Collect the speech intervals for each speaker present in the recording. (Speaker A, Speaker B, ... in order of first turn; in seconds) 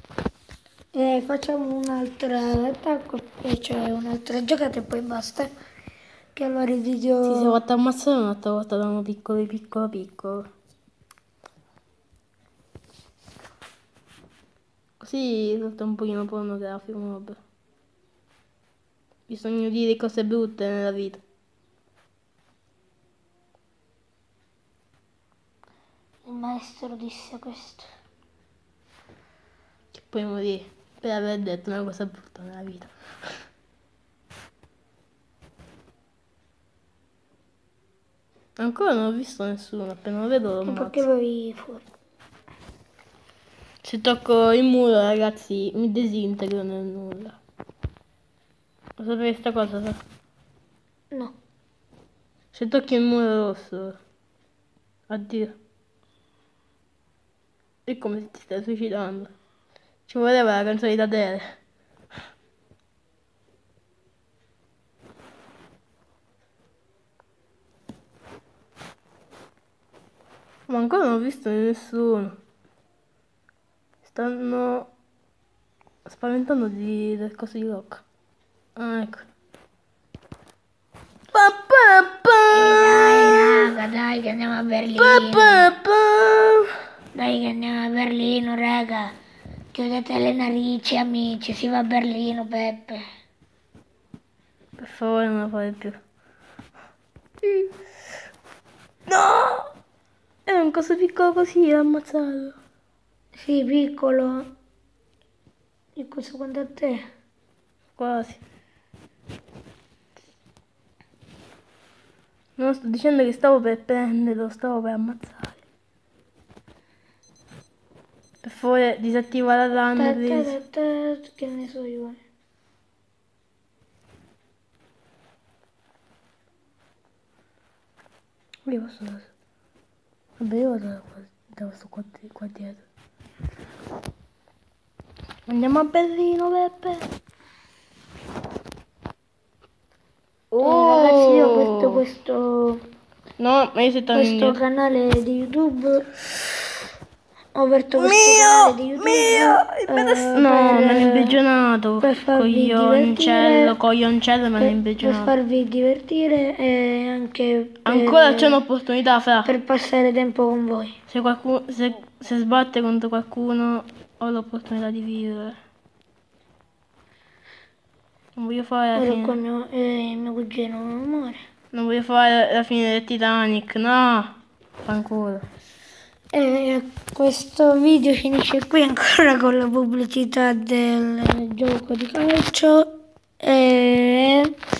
Speaker A: 0.9-5.5, 6.3-7.6, 26.2-27.9, 40.6-41.8, 82.5-85.7, 87.1-89.1, 89.7-93.0, 103.4-104.5, 106.0-107.0, 120.0-122.2, 140.6-142.8, 144.1-146.1, 147.5-151.4, 152.0-153.7, 154.6-158.6, 159.4-161.0, 168.9-171.4, 176.3-182.9, 183.4-184.5
Speaker B: 7.2-10.4, 15.0-17.4, 19.3-21.2, 29.9-32.9, 38.6-41.0, 43.8-47.4, 49.0-50.0, 52.5-54.0, 55.1-55.5, 57.9-59.3, 60.1-61.5, 70.7-72.3, 74.0-74.9, 76.0-78.0, 78.8-79.2, 81.3-83.7, 85.0-86.7, 94.8-96.0, 97.4-97.7, 99.1-99.7, 100.5-102.6, 108.0-108.4, 112.6-115.6, 118.4-120.5, 128.7-129.3, 130.4-132.8, 135.5-137.1, 140.5-142.0, 143.4-144.6, 147.9-155.3, 157.8-159.5, 161.1-165.6, 168.3-169.3, 171.7-174.3, 174.8-175.4